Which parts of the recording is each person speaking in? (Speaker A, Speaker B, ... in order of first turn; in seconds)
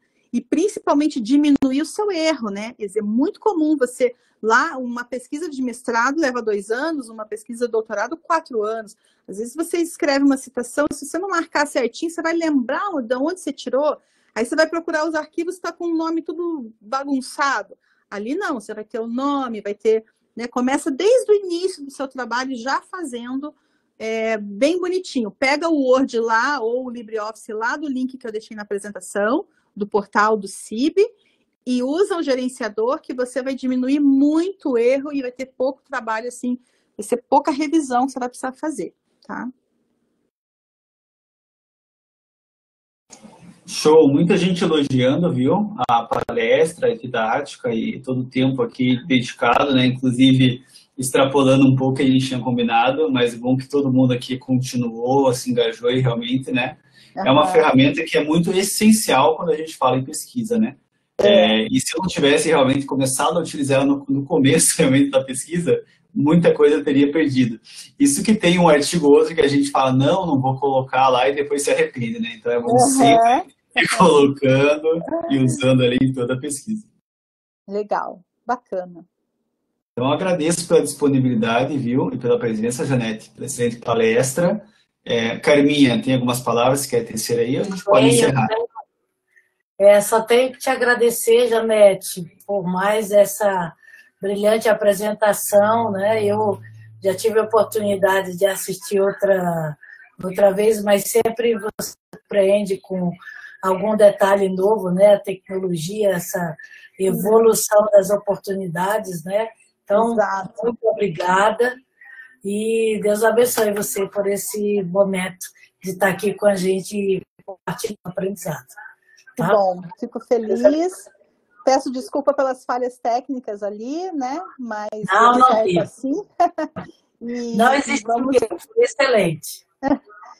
Speaker A: 0.3-31.1, 31.6-39.5, 57.2-57.7, 61.2-61.5, 72.6-74.1, 75.1-75.5, 77.7-79.0, 107.1-107.5, 109.9-110.5, 119.4-121.1, 121.7-128.5
Speaker B: 43.6-76.9, 80.0-88.5
Speaker C: 87.7-88.7, 89.8-111.8, 112.4-118.7, 120.5-120.8, 125.0-125.9, 127.5-129.6